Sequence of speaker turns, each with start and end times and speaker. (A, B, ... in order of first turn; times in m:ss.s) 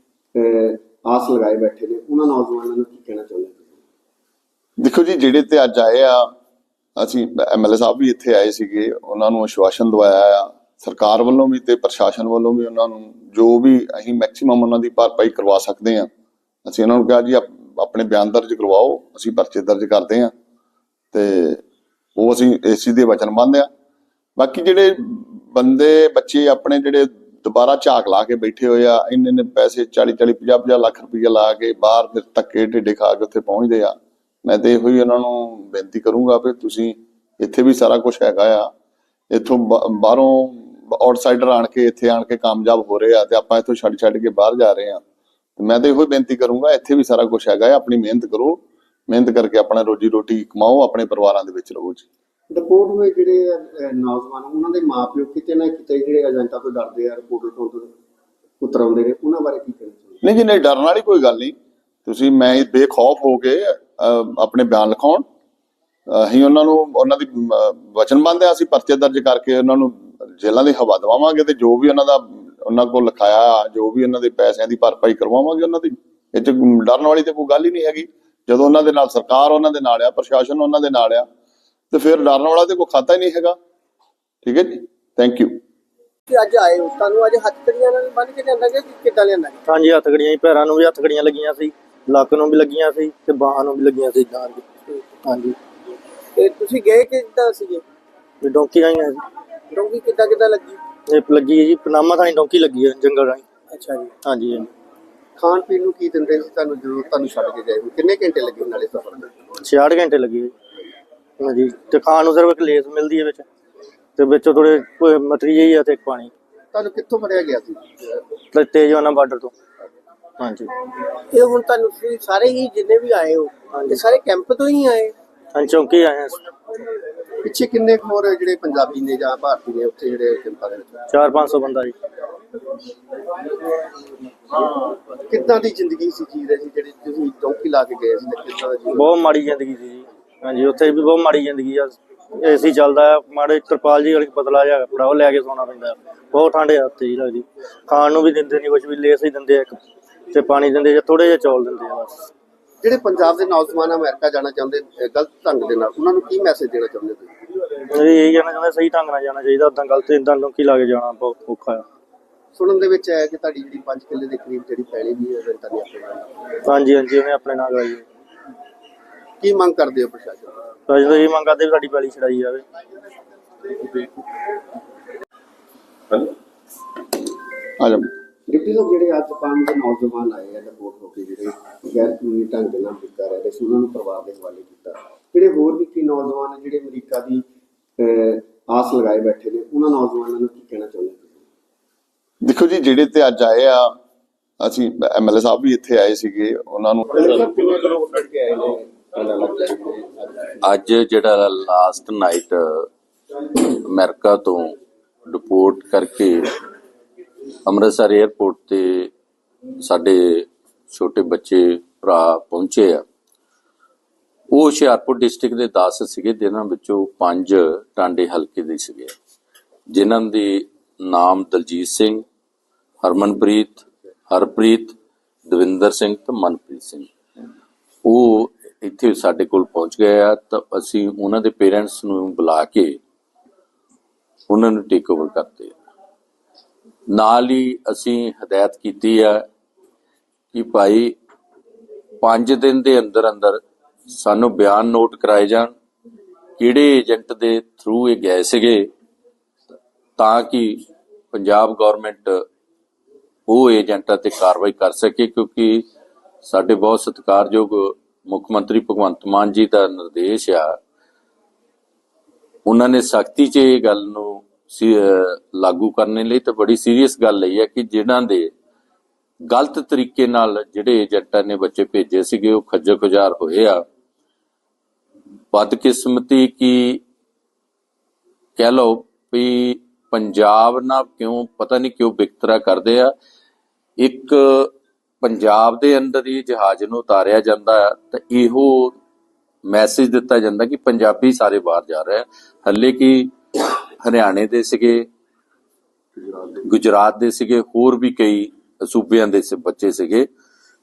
0:00.3-0:03.8 A
0:04.8-0:06.3 B
0:07.0-0:16.1 B
0:16.6-0:20.3 B
0:21.1-0:21.6 B
0:22.2-0:23.7 B
0:24.4-0:38.7 B
0:39.3-0:45.0 B
0:45.6-0:52.1 B
0:52.5-0:57.9 A
0:58.6-1:00.2 A
1:00.2-1:01.5 B
1:02.0-1:05.2 B
1:06.1-1:21.2 B
1:21.9-1:23.6 B
1:24.4-1:25.6 B
1:26.3-1:29.6 C
1:29.6-1:35.6 D
1:36.4-1:37.8 C
1:38.4-1:39.2 D
1:39.7-1:40.8 C
1:41.1-1:43.4 D
1:43.7-1:44.1 C
1:44.2-1:44.7 D
1:45.4-1:49.3 A
1:49.6-1:50.5 D
1:51.4-1:53.4 D
1:54.2-1:56.3 D
1:56.7-1:58.1 A
1:58.5-1:59.5 D
2:00.4-2:00.7 D
2:01.4-2:05.1 C
2:03.7-2:04.0 D
2:05.5-2:06.4 D
2:07.4-2:11.0 A
2:11.1-2:11.9 D
2:14.7-2:19.0 A
2:18.9-2:29.8 D
2:30.3-2:32.3 D
2:32.8-2:37.3 A
2:37.9-2:41.8 D
2:42.5-2:46.3 A
2:46.6-2:48.0 D
2:49.4-2:50.6 A
2:50.9-2:52.6 D
2:57.8-2:58.1 B
2:58.5-3:07.4 A
3:08.0-3:11.4 A
3:12.4-3:13.9 B
3:14.6-3:17.1 B
3:17.1-3:20.6 A
3:20.6-3:22.9 E
3:23.6-3:24.7 E
3:25.3-3:26.5 E
3:27.6-3:29.1 E
3:29.8-3:33.0 E
3:34.5-3:39.1 E
3:39.9-3:42.2 E
3:43.0-3:44.9 E
3:45.5-3:47.1 E
3:48.0-3:53.0 E
3:54.5-3:55.7 E
3:57.1-3:59.4 E
4:00.5-4:01.1 E
4:02.2-4:05.7 E
4:06.6-4:08.9 E
4:10.2-4:12.4 E
4:13.5-4:15.8 E
4:16.4-4:20.8 E
4:22.6-4:28.5 E
4:29.5-4:33.8 E
4:35.5-4:37.0 E
4:38.6-4:43.1 E
4:44.0-4:49.0 E
4:49.6-4:55.1 E
4:56.6-5:00.3 E